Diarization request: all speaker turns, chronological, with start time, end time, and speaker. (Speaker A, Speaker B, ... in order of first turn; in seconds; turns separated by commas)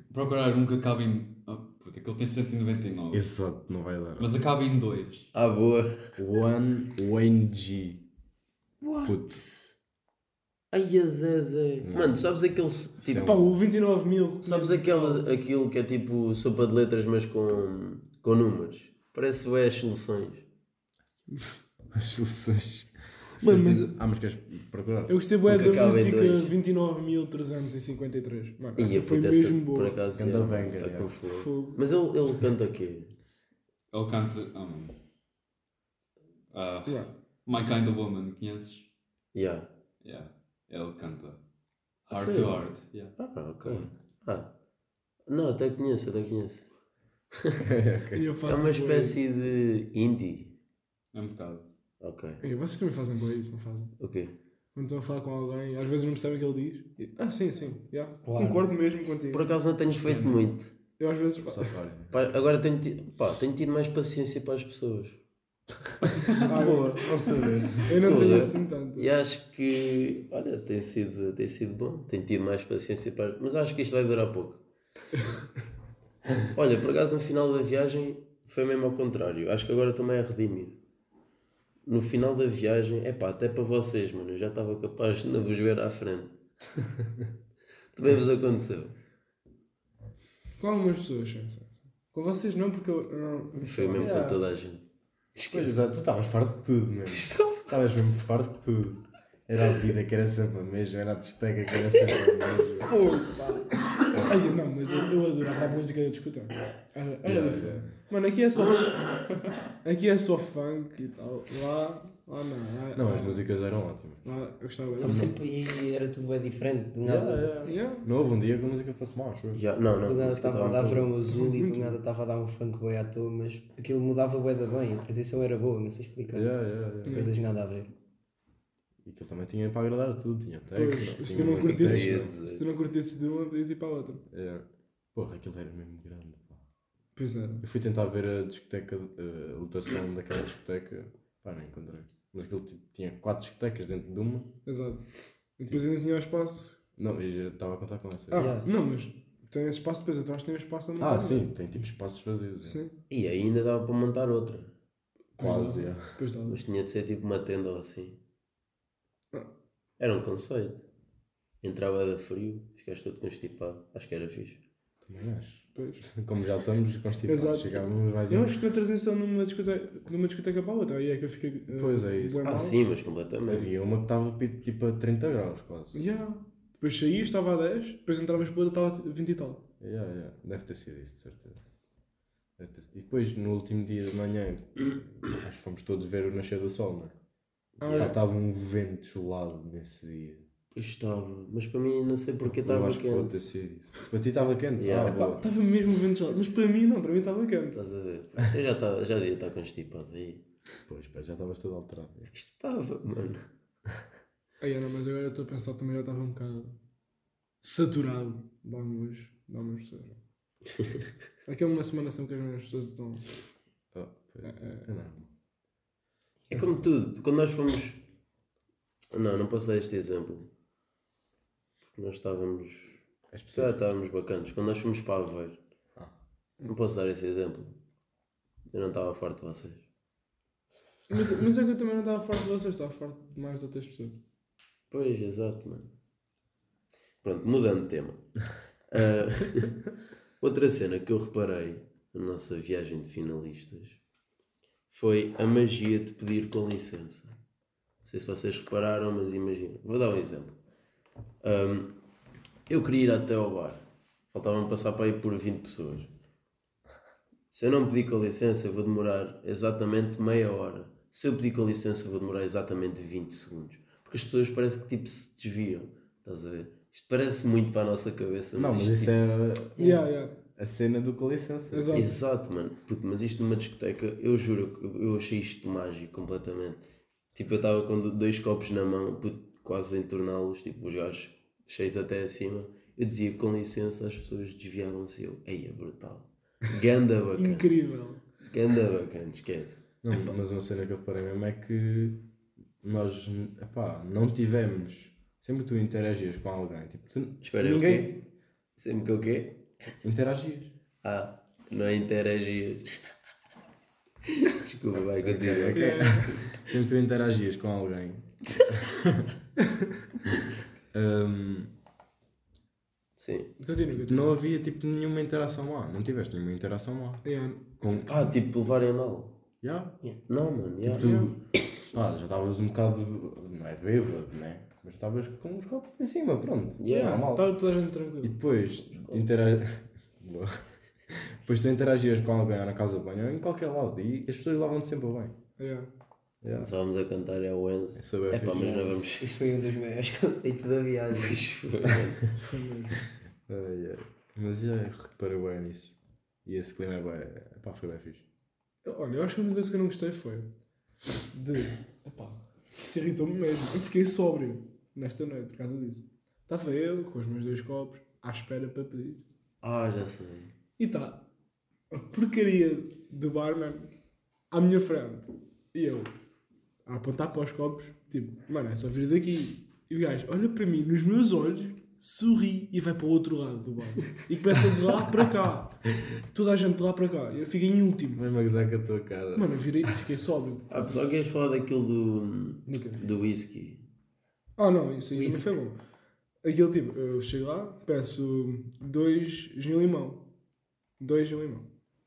Speaker A: 0.1-3.3, Speaker B: 3.1-4.3, Speaker A: 4.2-5.3, Speaker C: 5.3-6.1, Speaker B: 6.2-8.0, Speaker C: 8.8-9.8, Speaker B: 9.0-9.4, Speaker C: 10.7-13.3, Speaker B: 11.8-12.3, Speaker B: 13.1-13.6, Speaker D: 13.2-15.3, Speaker C: 14.4-20.4, Speaker D: 21.3-21.5, Speaker B: 21.9-25.1, Speaker D: 23.4-23.9, Speaker D: 25.1-30.0, Speaker C: 25.5-26.5, Speaker C: 28.8-33.1, Speaker B: 30.2-31.2, Speaker D: 31.2-31.8, Speaker A: 33.9-35.0, Speaker A: 36.5-38.9, Speaker D: 36.9-37.1, Speaker C: 39.3-39.7, Speaker A: 40.0-41.4, Speaker A: 42.1-43.1, Speaker C: 42.1-42.6, Speaker C: 43.2-44.5, Speaker B: 43.6-43.9, Speaker C: 45.3-46.7, Speaker B: 47.6-48.2, Speaker D: 48.1-49.2, Speaker C: 48.4-50.5, Speaker A: 51.1-51.7, Speaker C: 52.0-52.4, Speaker D: 52.4-53.9, Speaker C: 54.0-54.3, Speaker D: 54.8-59.5, Speaker E: 58.2-58.7, Speaker C: 59.3-60.7, Speaker A: 59.9-60.5, Speaker D: 61.0-61.7, Speaker B: 61.4-62.3, Speaker C: 62.1-65.2, Speaker D: 66.3-67.2, Speaker B: 66.4-68.4, Speaker D: 67.8-69.1, Speaker C: 67.9-74.6, Speaker C: 76.5-80.8, Speaker C: 81.9-86.3, Speaker C: 88.0-88.9, Speaker D: 90.6-94.2, Speaker C: 93.6-94.8, Speaker B: 94.0-94.4, Speaker C: 95.3-95.9, Speaker B: 95.5-102.9, Speaker C: 97.1-97.7, Speaker D: 102.9-109.3, Speaker B: 107.2-108.0, Speaker D: 109.8-113.4, Speaker B: 112.9-114.2, Speaker D: 114.2-115.3, Speaker E: 115.0-117.7, Speaker B: 115.0-115.3, Speaker B: 117.0-119.6, Speaker D: 117.6-118.1, Speaker C: 119.5-121.1, Speaker E: 120.0-126.5, Speaker D: 121.3-122.0, Speaker B: 126.3-127.3, Speaker D: 127.1-127.3, Speaker E: 127.1-127.9, Speaker B: 129.1-132.3, Speaker D: 130.7-134.2, Speaker C: 131.4-132.7, Speaker B: 134.3-136.6, Speaker D: 137.2-137.7, Speaker B: 137.6-144.5, Speaker D: 144.7-146.8, Speaker B: 147.0-148.5, Speaker D: 148.3-151.5, Speaker E: 148.3-148.7, Speaker B: 151.0-152.8, Speaker D: 152.6-152.9, Speaker C: 153.1-154.7, Speaker D: 155.4-156.6, Speaker B: 155.4-156.1, Speaker C: 156.4-158.2, Speaker C: 160.0-160.8, Speaker C: 161.6-164.6, Speaker B: 165.1-168.5, Speaker D: 165.8-166.1, Speaker D: 167.3-172.8, Speaker B: 171.7-172.5, Speaker C: 172.4-173.8, Speaker B: 173.5-176.0, Speaker D: 175.9-179.7, Speaker B: 179.8-181.6, Speaker B: 182.6-187.2, Speaker D: 187.8-188.2, Speaker C: 187.8-188.2, Speaker B: 187.9-190.4, Speaker C: 190.7-193.3, Speaker B: 192.4-195.4, Speaker C: 194.8-195.3, Speaker D: 195.1-197.9, Speaker C: 197.7-200.4, Speaker B: 200.9-202.3, Speaker C: 202.3-203.4, Speaker D: 204.6-206.8, Speaker D: 207.6-210.2, Speaker D: 211.5-213.3, Speaker B: 213.9-215.3, Speaker D: 214.4-214.9, Speaker C: 216.5-218.0, Speaker C: 219.1-220.5, Speaker C: 222.0-223.0, Speaker B: 223.3-223.8, Speaker C: 223.5-225.6, Speaker C: 226.7-227.8, Speaker C: 228.7-229.8, Speaker D: 231.1-234.2, Speaker C: 234.9-235.9, Speaker C: 237.2-238.2, Speaker C: 238.9-239.8, Speaker C: 240.4-244.0, Speaker C: 244.9-247.4, Speaker C: 248.0-250.6, Speaker C: 251.4-251.9, Speaker C: 252.7-256.1, Speaker C: 257.5-269.2, Speaker B: 268.6-269.9, Speaker D: 269.8-270.4, Speaker B: 270.6-272.1, Speaker D: 271.7-272.1, Speaker C: 271.9-287.7, Speaker D: 287.4-288.2, Speaker C: 288.4-289.8, Speaker B: 290.0-292.2, Speaker B: 292.8-298.2, Speaker C: 297.4-298.2, Speaker C: 298.8-299.6, Speaker B: 300.0-300.7, Speaker C: 301.0-303.0, Speaker C: 304.3-306.5, Speaker B: 305.2-309.3, Speaker D: 305.7-306.4, Speaker B: 310.9-311.7, Speaker C: 313.2-313.5, Speaker D: 313.6-314.4, Speaker B: 314.0-317.2, Speaker D: 317.2-317.7, Speaker B: 317.8-318.3, Speaker C: 318.1-319.4, Speaker B: 319.6-320.0, Speaker C: 320.3-321.3, Speaker B: 320.8-321.4, Speaker B: 321.9-327.5, Speaker C: 326.8-327.3, Speaker D: 326.9-328.4, Speaker B: 328.2-335.4, Speaker C: 329.0-329.3, Speaker D: 335.6-335.9, Speaker B: 336.4-336.7, Speaker C: 336.6-339.3, Speaker B: 338.0-339.0, Speaker E: 338.5-341.4, Speaker C: 341.1-342.2, Speaker D: 342.4-343.1, Speaker B: 343.5-348.2, Speaker D: 348.8-350.5, Speaker D: 351.3-359.2, Speaker C: 359.6-360.5, Speaker D: 360.8-361.2, Speaker D: 361.9-363.9, Speaker D: 364.5-366.1, Speaker D: 366.9-378.2, Speaker B: 378.1-380.1, Speaker D: 379.4-381.1, Speaker C: 380.7-383.8, Speaker D: 382.7-383.1, Speaker D: 384.6-385.8, Speaker E: 385.1-385.6, Speaker D: 386.4-390.2, Speaker D: 391.0-391.7